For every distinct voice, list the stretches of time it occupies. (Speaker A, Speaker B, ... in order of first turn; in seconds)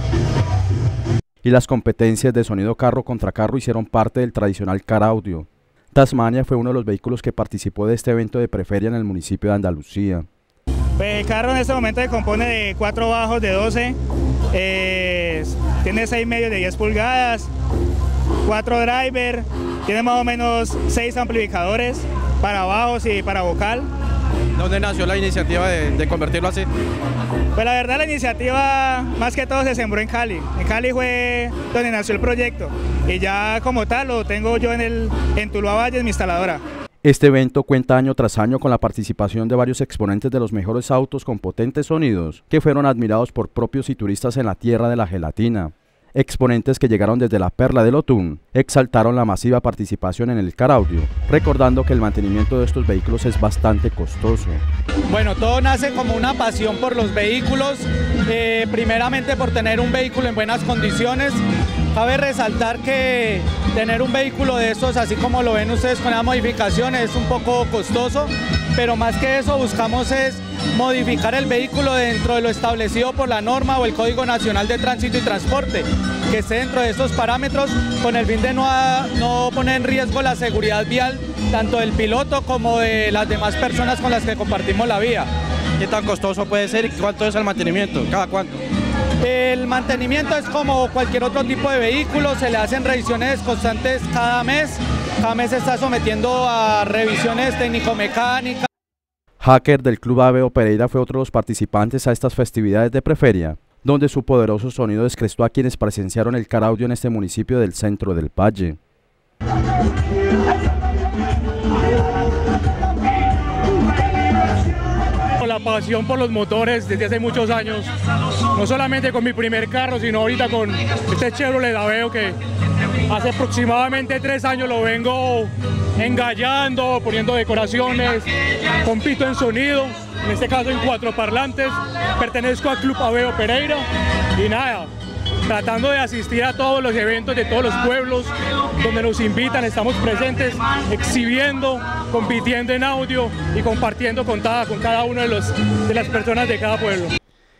Speaker A: 1.4-10.2, 37.0-54.6, 99.4-108.8
Speaker B: 11.0-13.9, 14.5-17.5, 18.4-23.9, 27.5-36.6
Speaker C: 24.6-26.7, 85.8-88.6
Speaker D: 55.1-61.4, 61.9-85.3, 89.2-98.7
Speaker E: 115.4-117.9, 118.5-122.4, 123.0-128.3, 128.8-133.8, 134.3-134.9, 135.4-147.1